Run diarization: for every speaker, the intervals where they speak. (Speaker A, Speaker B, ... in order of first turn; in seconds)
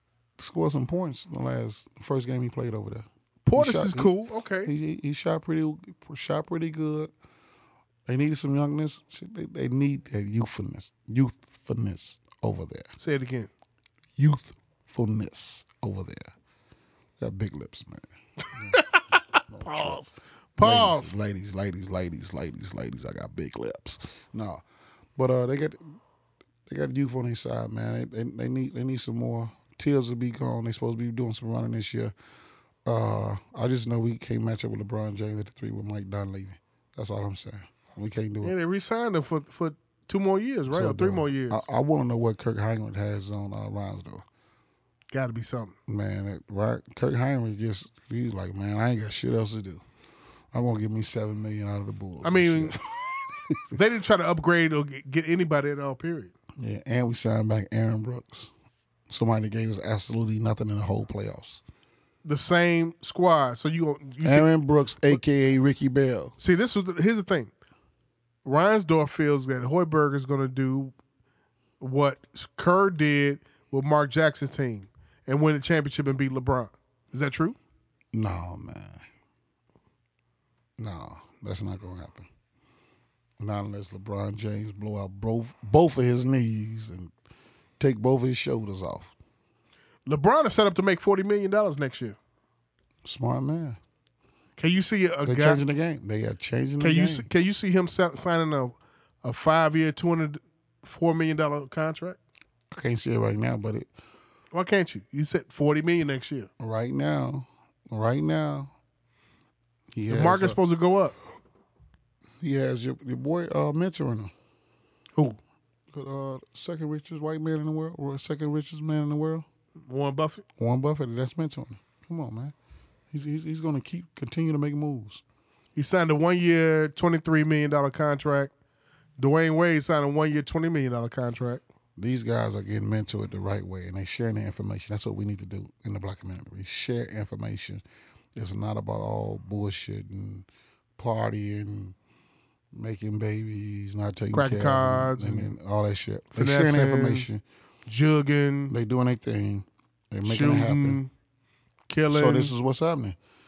Speaker A: 0.4-4.1, 4.6-7.1, 8.1-12.9, 14.2-16.3, 17.2-24.6, 25.1-26.0, 26.7-32.1, 32.9-38.5, 40.7-44.2, 45.9-49.8, 50.5-52.8, 53.3-53.8, 56.6-58.5, 59.1-61.6, 64.2-66.3, 78.1-79.0, 80.8-82.3, 83.4-87.1, 87.8-89.1, 93.0-93.8, 95.2-97.3, 102.7-103.9, 106.6-108.7, 109.9-110.6, 112.4-114.3, 115.9-119.5, 120.6-122.5, 123.1-125.2, 132.0-137.8, 138.3-140.5, 141.0-141.9, 142.7-147.4, 148.7-151.0, 152.1-153.2
Speaker B: 3.5-4.7, 13.0-13.5, 18.7-21.1, 38.4-41.6, 45.1-45.7, 52.2-52.8, 53.7-56.3, 62.2-64.5, 66.4-67.5, 68.4-70.9, 71.8-77.6, 90.0-92.2, 94.6-95.6, 96.8-102.2, 104.5-106.5, 110.1-111.1, 119.9-120.4, 125.7-128.5, 129.2-131.6, 144.3-145.5, 146.3-147.3, 147.8-148.7, 150.2-151.1, 151.9-152.5